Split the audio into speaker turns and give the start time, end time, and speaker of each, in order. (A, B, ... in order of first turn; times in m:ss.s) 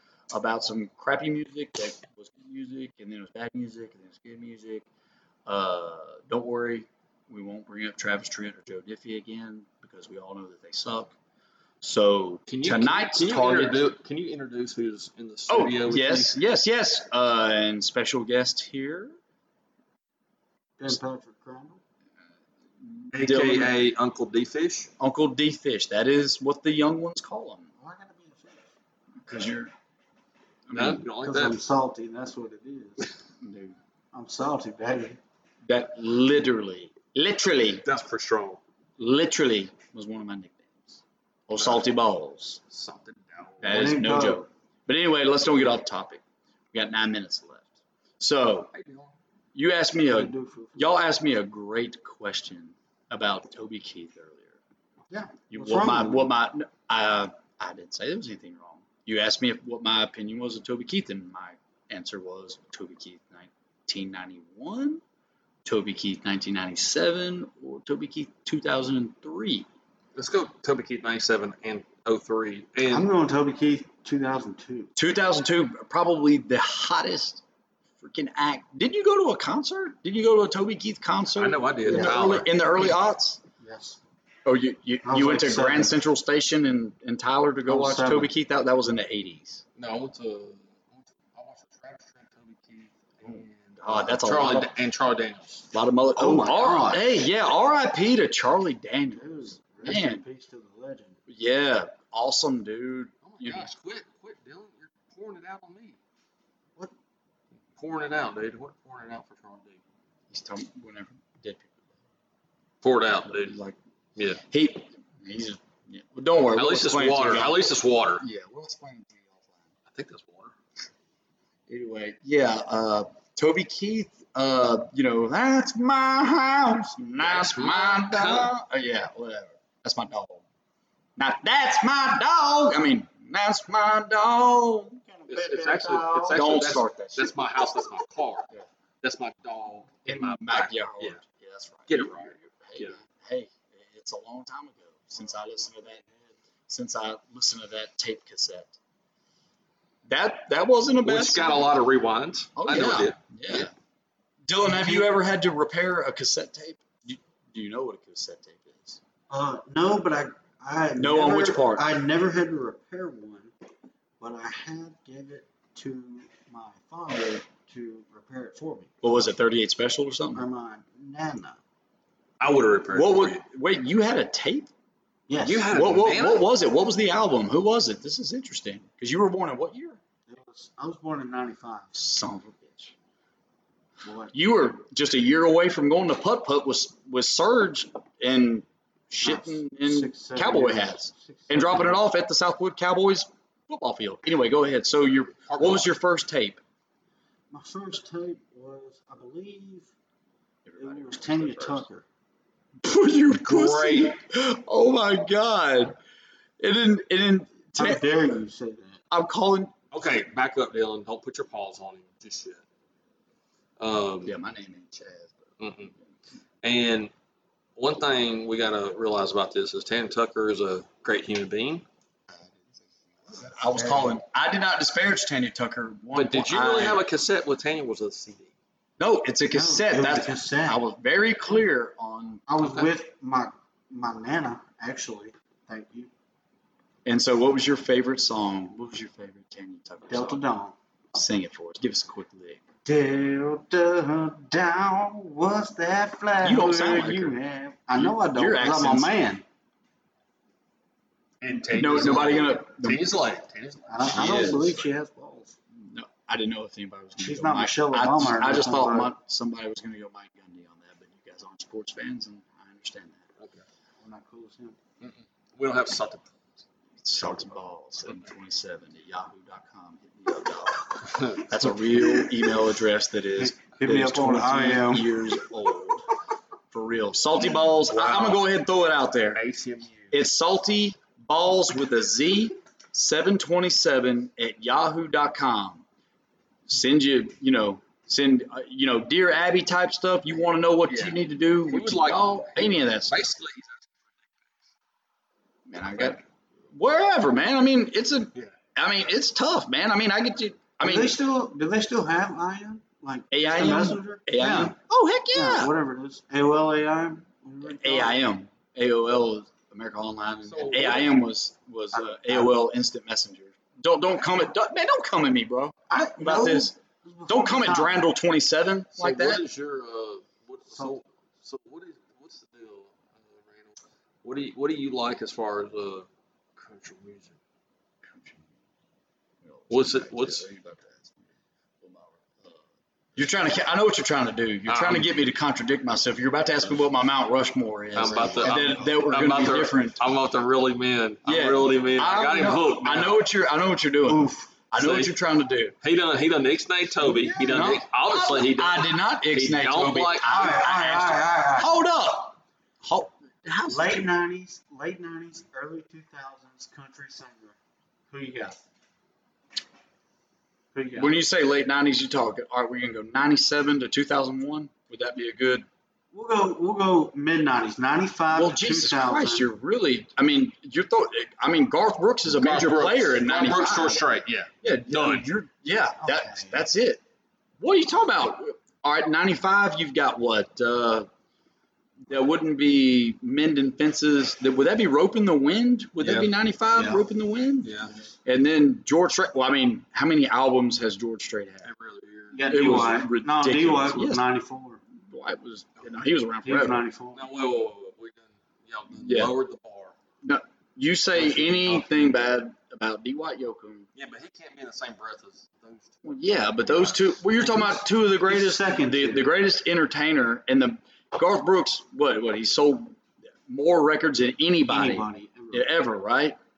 0:00.3-0:04.8 A
0:05.5-0:11.2 A
0:11.8-0:13.8 A
0:12.5-0:16.4 B
0:15.5-0:19.2 A
0:20.8-0:21.8 C
0:22.9-0:23.7 A
0:23.1-0:24.9 B
0:25.0-0:27.7 A
0:27.8-0:28.7 C
0:29.3-0:29.7 A
0:30.7-0:31.0 A
0:30.7-0:31.6 B
0:31.2-0:33.2 C
0:33.4-0:33.8 A
0:34.1-0:35.2 C
0:35.7-0:37.8 A
0:37.8-0:38.6 B
0:39.0-0:42.6 A
0:42.7-0:43.8 B
0:43.6-0:46.2 A
0:43.7-0:44.4 C
0:46.7-0:48.7 A
0:48.7-0:49.1 B
0:49.6-0:54.6 A
0:50.1-0:50.9 C
0:55.1-0:56.3 C
0:55.5-1:05.0 A
1:05.6-1:09.7 A
1:10.2-1:13.1 B
1:12.8-1:14.9 C
1:15.0-1:17.4 A
1:18.0-1:23.4 A
1:21.3-1:22.5 B
1:21.9-1:22.2 C
1:23.6-1:24.0 C
1:24.4-1:29.6 A
1:25.0-1:26.0 C
1:27.7-1:28.3 C
1:29.8-1:35.7 B
1:33.2-1:34.7 A
1:35.7-1:40.2 A
1:36.2-1:37.2 C
1:39.1-1:41.2 C
1:41.3-1:43.7 A
1:43.2-1:46.0 B
1:47.8-1:49.8 B
1:50.3-1:52.0 A
1:52.8-1:53.6 B
1:53.2-1:53.8 A
1:54.4-1:57.7 A
1:56.6-1:58.2 B
1:58.2-1:59.6 A
1:59.9-2:00.6 B
2:01.7-2:10.4 A
2:07.2-2:08.5 B
2:11.2-2:15.1 A
2:15.1-2:16.6 C
2:15.3-2:18.5 B
2:16.3-2:17.4 A
2:19.0-2:21.2 B
2:20.1-2:26.0 A
2:21.9-2:23.0 B
2:25.2-2:26.3 C
2:26.7-2:28.8 A
2:30.1-2:31.7 A
2:31.0-2:33.7 B
2:32.6-2:33.7 A
2:34.5-2:39.0 A
2:34.7-2:35.1 C
2:39.3-2:43.5 C
2:41.0-2:41.9 A
2:44.2-2:49.0 C
2:49.0-2:50.5 A
2:50.3-2:51.6 C
2:52.4-2:53.4 B
2:52.9-2:54.7 A
2:55.3-2:55.8 C
2:55.4-2:56.5 B
2:55.6-3:00.0 A
3:00.3-3:01.9 C
3:02.0-3:02.9 A
3:04.0-3:04.3 C
3:04.3-3:16.6 A
3:09.2-3:12.0 C
3:15.4-3:15.9 B
3:17.5-3:19.9 C
3:20.7-3:21.9 A
3:20.8-3:22.1 C
3:22.8-3:26.0 A
3:23.4-3:24.2 B
3:26.6-3:28.0 A
3:27.8-3:29.0 C
3:29.1-3:29.7 A
3:29.9-3:32.6 B
3:33.8-3:34.4 B
3:34.2-3:35.5 A
3:35.6-3:35.9 B
3:36.6-3:37.1 B
3:37.8-3:41.8 B
3:43.3-3:47.0 A
3:43.7-3:44.2 C
3:46.1-3:48.5 B
3:49.0-3:52.4 A
3:49.5-3:50.8 C
3:52.5-3:56.1 C
3:57.1-4:00.4 A
4:00.1-4:00.8 C
4:01.1-4:02.6 A
4:02.8-4:09.4 C
4:06.4-4:07.3 A
4:08.0-4:09.1 A
4:11.4-4:14.8 B
4:11.7-4:13.0 A
4:13.9-4:15.6 C
4:14.2-4:14.6 A
4:15.8-4:23.2 A
4:17.2-4:19.1 C
4:23.4-4:23.6 B
4:24.0-4:24.8 C
4:25.0-4:26.3 B
4:27.0-4:36.1 A
4:32.0-4:32.3 C
4:33.4-4:35.3 C
4:36.7-4:39.4 A
4:37.8-4:38.4 B
4:39.4-4:40.1 B
4:40.1-4:45.8 A
4:46.7-4:53.2 A
4:50.9-4:53.9 B
4:55.7-5:01.1 A
5:00.8-5:04.8 C
5:03.3-5:05.7 A
5:05.3-5:08.2 C
5:07.6-5:19.4 A
5:10.4-5:11.2 B
5:11.9-5:12.6 C
5:15.9-5:18.1 C
5:18.9-5:27.4 B
5:20.7-5:21.0 C
5:28.0-5:28.4 A
5:29.4-5:31.2 A
5:29.7-5:30.4 B
5:31.8-5:32.6 A
5:33.2-5:40.0 A
5:34.7-5:35.1 B
5:37.9-5:43.2 B
5:38.1-5:38.7 C
5:41.2-5:45.8 A
5:44.1-5:44.5 C
5:44.8-5:45.1 B
5:45.8-5:50.5 B
5:47.0-5:47.8 C
5:47.4-5:54.1 A
5:50.2-5:51.7 C
5:53.7-5:57.6 C
5:58.1-5:58.6 C
6:00.7-6:01.2 C
6:00.9-6:05.7 A
6:06.1-6:09.4 C
6:08.3-6:14.0 A
6:12.3-6:15.3 B
6:14.6-6:17.0 A
6:16.0-6:16.6 C
6:17.6-6:21.1 A
6:22.1-6:31.7 A
6:26.0-6:26.3 B
6:26.8-6:27.0 C
6:27.6-6:27.9 B
6:31.6-6:33.0 B
6:32.3-6:34.8 C
6:32.5-6:34.2 A
6:35.0-6:36.8 A
6:36.4-6:37.3 C
6:37.1-6:39.9 B
6:39.0-6:39.3 A
6:40.2-6:43.9 A
6:41.1-6:42.1 C
6:43.9-6:46.9 B
6:46.0-6:56.4 A
6:47.4-6:49.3 C
6:54.7-6:55.7 C